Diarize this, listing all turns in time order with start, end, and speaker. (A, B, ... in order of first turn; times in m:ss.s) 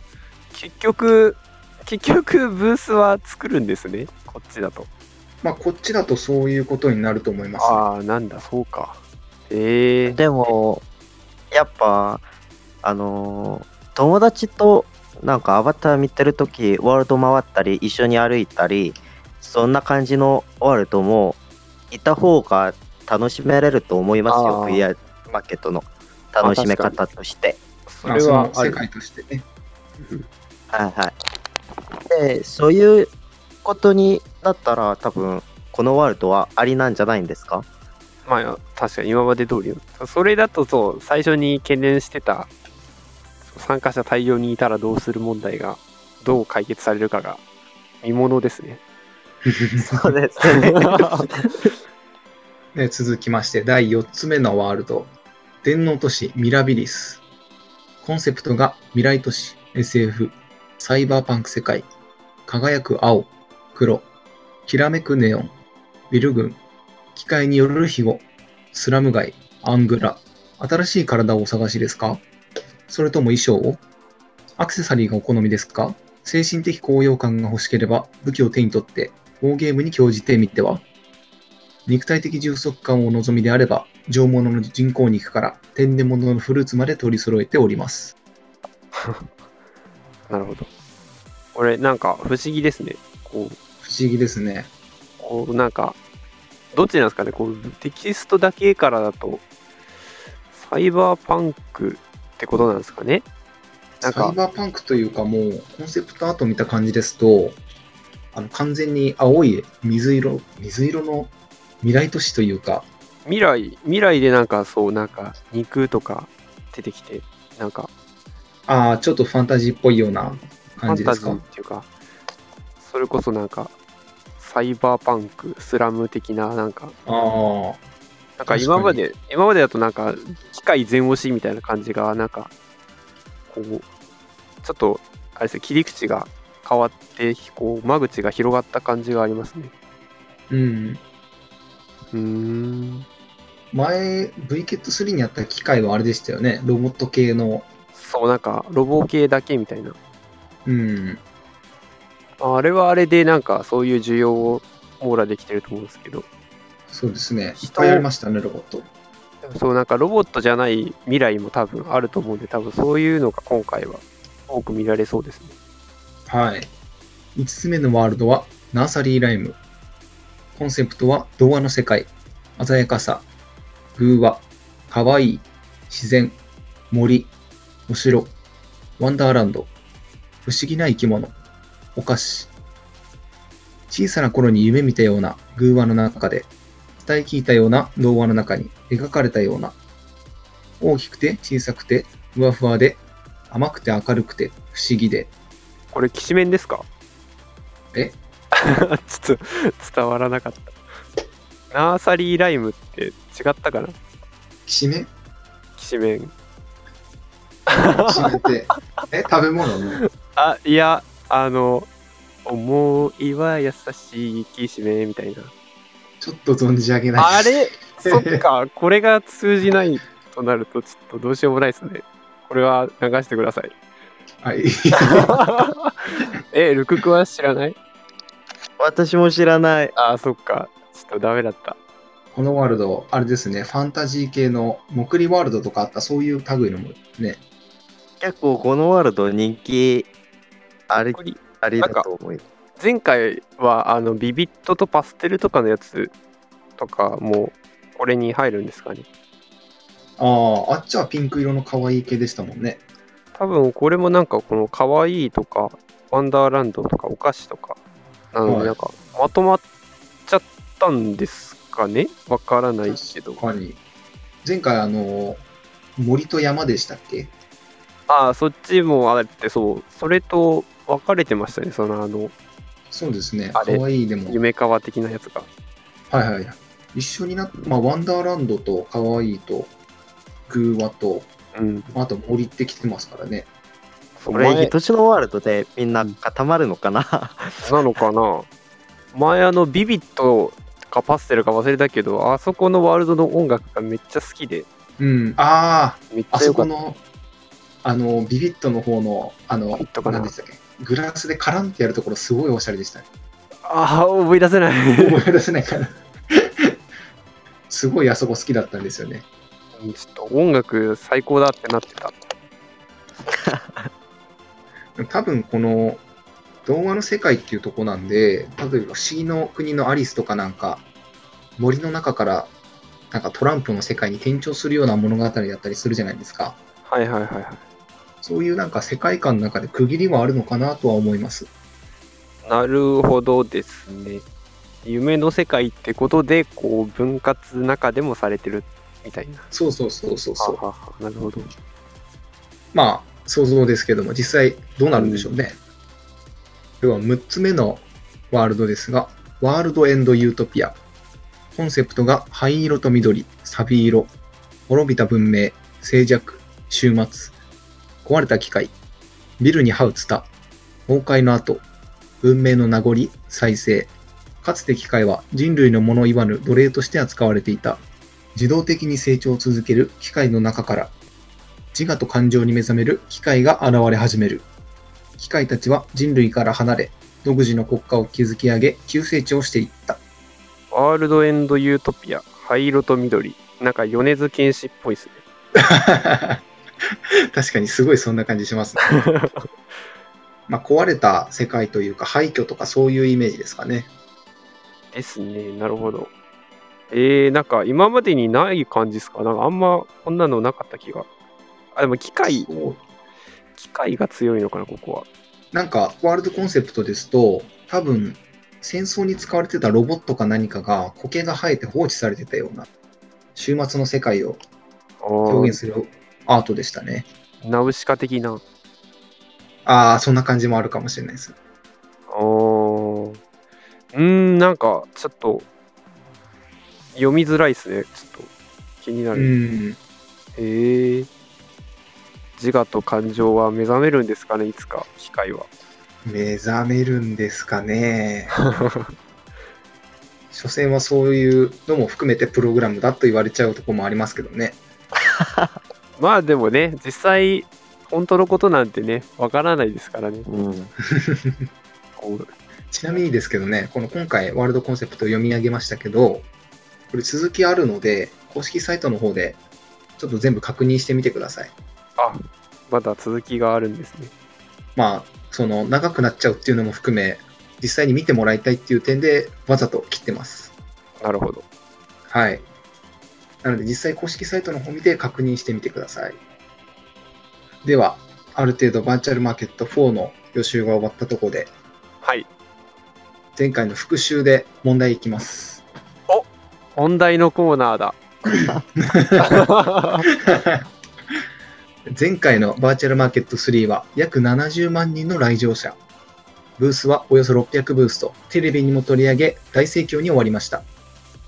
0:00.5-0:04.9 A
0:05.4-0:07.8 B
0:07.6-0:09.0 A
0:09.5-0:10.5 A
0:10.0-0:10.8 C
0:11.5-0:12.2 C
0:12.8-0:21.4 C
0:21.9-0:27.6 C
0:24.3-0:24.8 A
0:26.4-0:27.0 A
0:27.9-0:28.8 A
0:28.0-0:29.4 B
0:30.0-0:30.3 A
0:30.7-0:31.1 C
0:32.1-0:33.1 C
0:33.6-0:37.6 C
0:38.2-0:42.5 A
0:43.5-0:47.4 A
0:48.0-0:48.8 A
0:49.4-0:50.1 B
0:49.8-0:51.7 C
0:50.5-0:51.3 A
0:52.7-0:55.1 B
0:55.6-0:57.2 B
0:58.0-1:01.9 B
1:02.5-1:04.0 B
1:04.6-1:05.5 B
1:06.1-1:06.6 B
1:07.1-1:12.2 B
1:12.9-1:13.8 B
1:14.6-1:20.8 B
1:21.9-1:28.1 B
1:28.9-1:29.3 A
1:30.3-1:30.7 A
1:31.5-1:33.6 A
1:33.8-1:34.7 B
1:35.2-1:36.0 A
1:36.7-1:39.4 A
1:40.5-1:43.2 A
1:44.0-1:44.4 A
1:44.0-1:47.6 B
1:48.3-1:52.9 B
1:53.2-1:57.9 A
1:58.7-2:01.4 B
2:00.9-2:01.9 A
2:02.8-2:03.7 A
2:04.4-2:06.9 A
2:07.0-2:07.8 B
2:08.4-2:12.5 A
2:08.5-2:09.0 B
2:13.5-2:13.9 A
2:14.6-2:19.7 A
2:20.5-2:21.0 B
2:22.1-2:23.0 A
2:23.7-2:27.7 B
2:27.9-2:30.0 A
2:30.6-2:31.2 B
2:32.4-2:36.2 A
2:36.9-2:38.9 B
2:37.6-2:38.0 A
2:39.4-2:45.5 A
2:46.3-2:46.7 B
2:47.4-2:49.6 B
2:50.6-2:53.2 B
2:54.0-2:56.4 B
2:56.9-2:57.3 B
2:57.9-2:58.3 B
2:59.0-2:59.7 B
3:00.4-3:01.3 B
3:01.9-3:02.5 B
3:03.9-3:06.5 B
3:07.0-3:09.8 B
3:10.8-3:15.3 B
3:15.9-3:16.9 A
3:18.5-3:20.8 A
3:21.7-3:24.0 A
3:24.6-3:25.1 B
3:25.8-3:26.3 A
3:27.7-3:28.4 A
3:28.0-3:30.0 B
3:29.9-3:31.9 A
3:32.4-3:35.5 A
3:36.2-3:38.4 B
3:37.2-3:43.7 A
3:44.4-3:45.4 B
3:45.0-3:47.8 A
3:48.8-3:49.9 C
3:50.0-3:51.8 A
3:52.4-3:57.4 B
3:58.2-4:00.1 C
4:00.9-4:02.4 C
4:01.1-4:02.0 A
4:02.8-4:06.1 A
4:06.8-4:09.0 A
4:10.2-4:12.8 B
4:13.4-4:17.8 A
4:18.3-4:19.6 A
4:18.4-4:18.8 B
4:20.3-4:23.4 A
4:22.8-4:23.8 B
4:24.4-4:25.4 B
4:26.0-4:27.3 B
4:28.1-4:32.3 A
4:32.9-4:34.4 B
4:33.5-4:35.5 A
4:36.1-4:39.7 B
4:40.5-4:41.3 B
4:41.5-4:41.9 A
4:41.9-4:43.5 B
4:44.2-4:44.7 A
4:44.3-4:47.8 C
4:47.6-4:48.5 A
4:49.1-4:54.7 A
4:55.0-4:57.0 B
4:56.1-4:56.7 A
4:57.8-5:03.0 B
4:59.7-5:00.3 A
5:03.6-5:05.2 A
5:05.0-5:06.7 B
5:07.7-5:09.2 B
5:09.8-5:12.1 A
5:13.3-5:13.9 C
5:15.0-5:16.0 B
5:16.6-5:20.8 B
5:21.6-5:22.5 B
5:23.1-5:26.6 B
5:26.9-5:27.6 A
5:28.2-5:31.5 B
5:32.4-5:34.2 A
5:34.8-5:39.5 A
5:39.5-5:40.6 B
5:40.4-5:41.5 A
5:42.7-5:45.5 B
5:44.9-5:45.3 A
5:46.8-5:50.8 B
5:51.5-5:54.1 B
5:54.7-5:57.3 B
5:58.0-5:58.7 B
5:59.4-6:00.3 B
6:00.9-6:01.6 B
6:02.2-6:03.9 B
6:04.4-6:07.8 B
6:08.4-6:10.9 B
6:11.7-6:14.5 B
6:15.2-6:20.0 B
6:20.7-6:25.2 A
6:25.6-6:26.4 B
6:27.3-6:28.8 B
6:28.9-6:29.5 A
6:30.5-6:33.9 B
6:34.9-6:36.1 A
6:36.9-6:41.1 A
6:41.8-6:42.5 A
6:42.2-6:42.8 B
6:43.6-6:45.1 A
6:45.5-6:52.7 B
6:53.4-6:54.4 B
6:55.0-6:55.6 A
6:55.2-6:57.1 B
6:57.4-6:58.4 A
6:59.6-7:01.4 B
7:02.1-7:03.2 A
7:03.9-7:05.5 A
7:06.9-7:08.3 A
7:08.8-7:09.3 A
7:09.1-7:09.8 B
7:10.4-7:11.1 A
7:12.4-7:15.5 A
7:16.0-7:18.4 B
7:18.4-7:18.9 A
7:20.3-7:24.6 B
7:25.2-7:25.5 C
7:26.0-7:30.3 A
7:30.3-7:30.7 C
7:30.9-7:31.5 B
7:32.0-7:32.3 A
7:32.7-7:36.2 B
7:36.9-7:39.4 B
7:40.0-7:41.5 B
7:42.0-7:44.1 A
7:44.8-7:50.5 B
7:51.0-7:51.4 A
7:52.1-7:52.4 B
7:53.4-7:56.2 B
7:57.6-8:01.5 B
8:03.4-8:05.6 B
8:06.1-8:08.0 A
8:08.8-8:09.5 B
8:09.2-8:10.1 A
8:10.1-8:10.6 B
8:11.9-8:15.8 B
8:16.6-8:20.6 B